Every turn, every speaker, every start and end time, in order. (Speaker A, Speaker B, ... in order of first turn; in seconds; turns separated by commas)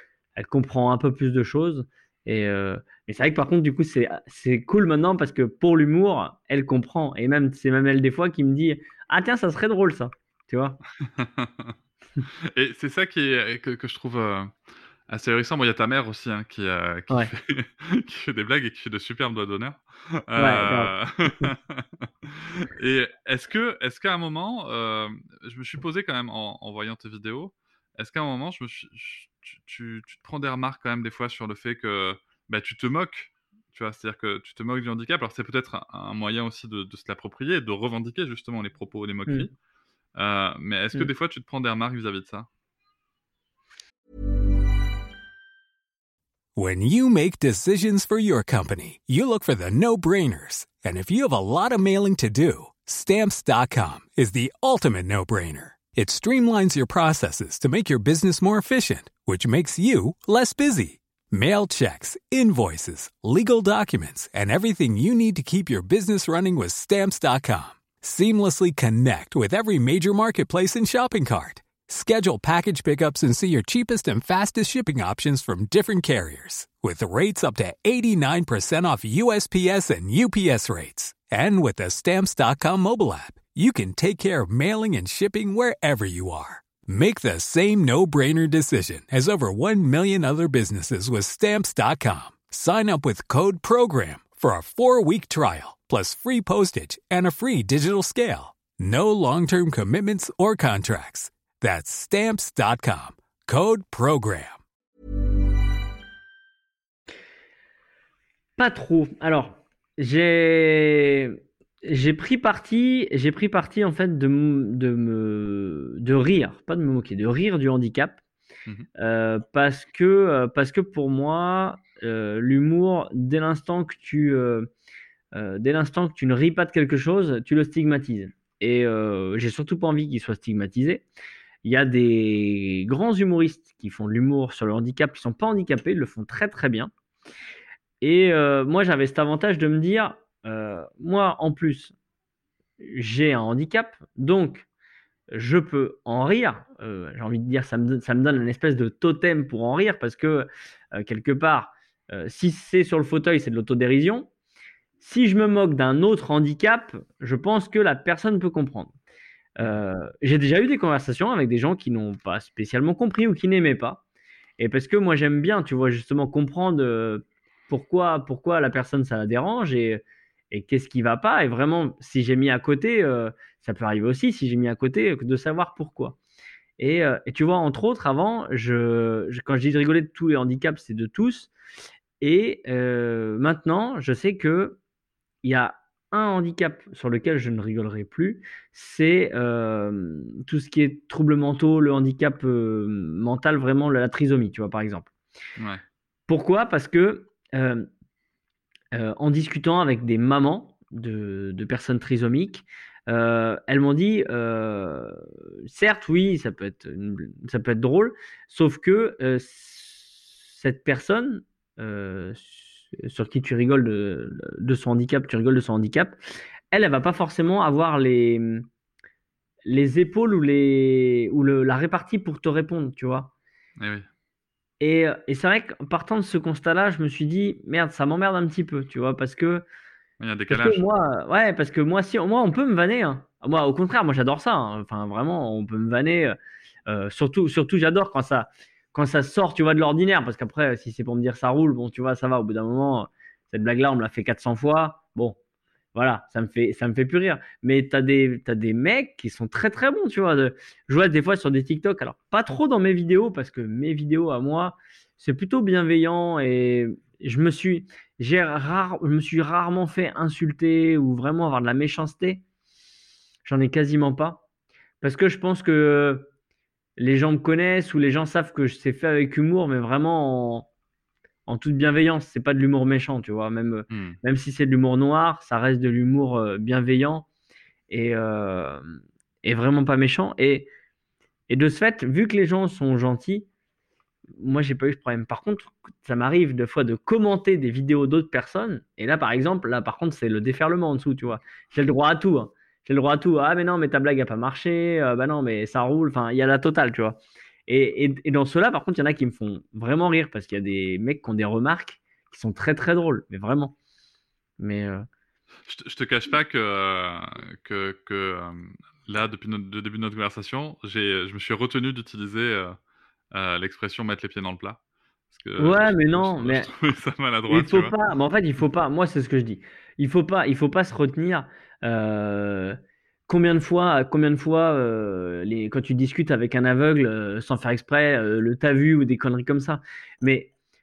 Speaker A: 0.4-10.8, Speaker B: 11.0-39.5, Speaker A: 20.4-21.5, Speaker B: 40.1-42.5, Speaker C: 46.6-104.6, Speaker A: 108.6-118.2, Speaker A: 119.0-124.7, Speaker A: 125.3-131.1, Speaker A: 131.6-136.9, Speaker A: 138.0-141.9, Speaker A: 142.8-144.7, Speaker A: 145.3-154.3, Speaker A: 155.0-158.9, Speaker A: 159.6-164.0, Speaker A: 164.6-176.2, Speaker A: 176.8-181.5, Speaker A: 182.2-184.8, Speaker A: 185.4-195.1, Speaker A: 196.3-197.9, Speaker A: 198.9-216.2, Speaker A: 216.7-218.7, Speaker A: 219.6-223.3, Speaker B: 223.8-224.1, Speaker A: 224.8-229.7, Speaker B: 230.2-230.8, Speaker A: 230.5-236.4, Speaker A: 236.9-245.4, Speaker A: 245.9-262.4, Speaker A: 263.4-264.4, Speaker A: 265.0-266.3, Speaker A: 267.0-270.7, Speaker A: 271.5-277.3, Speaker B: 273.9-274.2, Speaker A: 277.9-280.7, Speaker A: 281.5-283.5, Speaker A: 284.4-303.8, Speaker A: 304.6-305.1, Speaker B: 305.7-312.8, Speaker B: 313.3-314.8, Speaker B: 315.3-317.9, Speaker A: 315.6-316.7, Speaker A: 317.5-330.5